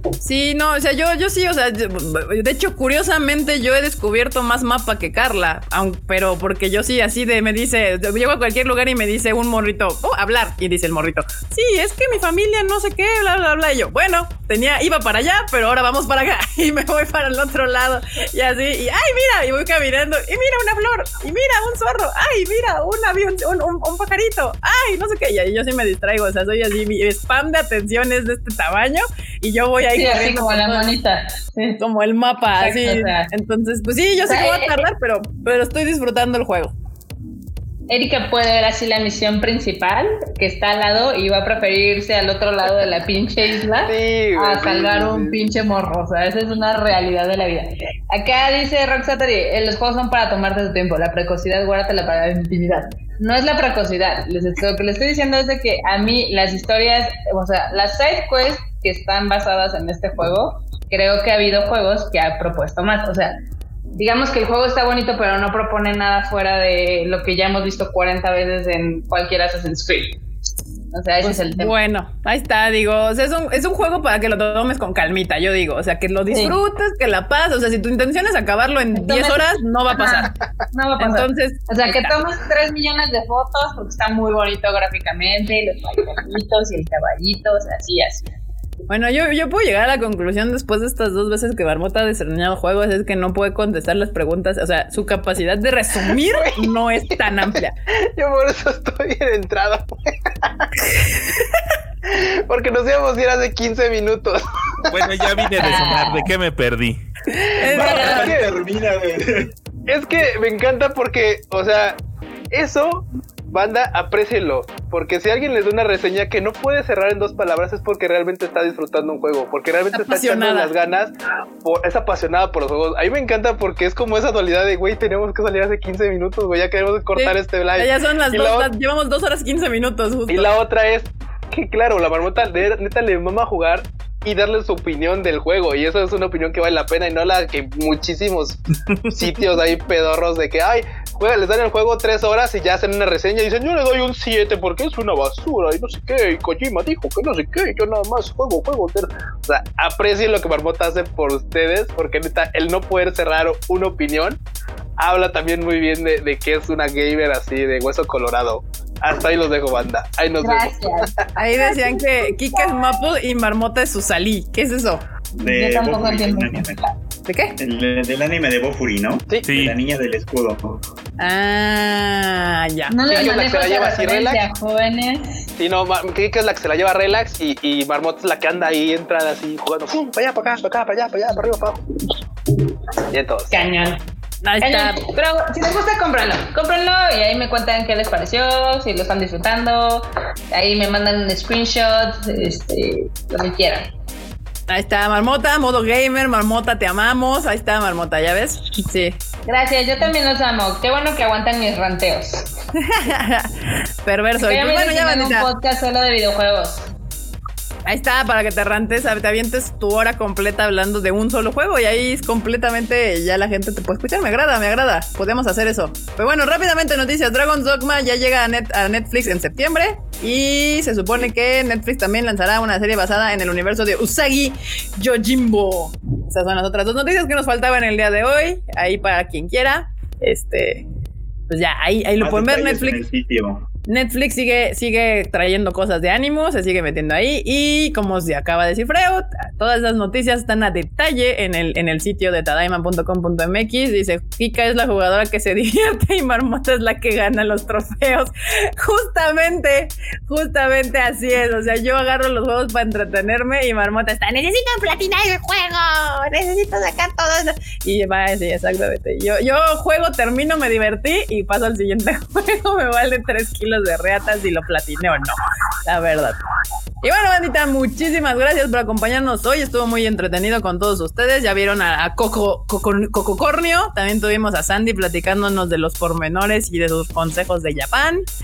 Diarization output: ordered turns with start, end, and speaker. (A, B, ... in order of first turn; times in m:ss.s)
0:00.2-0:30.9 A
0:29.9-0:31.8 B
0:31.8-0:36.7 A
0:32.6-0:33.3 B
0:34.3-0:34.8 B
0:37.9-1:03.3 B
0:43.8-0:45.5 C
1:03.9-1:10.2 B
1:10.9-1:11.7 B
1:11.2-1:20.3 A
1:16.3-1:16.6 B
1:18.9-1:28.3 B
1:21.0-1:22.2 A
1:28.9-1:37.8 A
1:36.3-1:36.7 C
1:37.9-1:40.7 C
1:42.0-1:45.5 C
1:44.9-1:47.0 D
1:45.6-1:46.3 B
1:47.4-1:48.5 C
1:47.6-1:48.3 A
1:47.7-1:49.5 E
1:49.9-1:52.0 C
1:52.5-2:01.1 C
1:59.9-2:00.7 A
2:01.6-2:08.7 C
2:07.1-2:10.6 A
2:10.3-2:34.4 C
2:35.0-2:41.2 C
2:40.4-2:42.0 B
2:41.4-2:45.0 A
2:45.3-2:46.8 E
2:45.4-2:46.8 B
2:47.2-2:47.6 A
2:47.6-2:50.8 E
2:49.4-2:49.8 D
2:51.2-2:53.2 A
2:52.9-2:55.3 B
2:53.1-2:54.4 C
2:55.6-3:01.9 C
3:03.1-3:03.6 C
3:03.5-3:04.0 B
3:04.4-3:05.0 A
3:04.6-3:13.9 B
3:14.7-3:19.2 A
3:19.4-3:22.5 B
3:22.8-3:25.5 A
3:24.4-3:26.9 B
3:27.8-3:50.8 A
3:51.5-3:53.0 A
3:52.2-3:53.6 E
3:53.8-4:26.4 A
4:27.0-4:38.2 A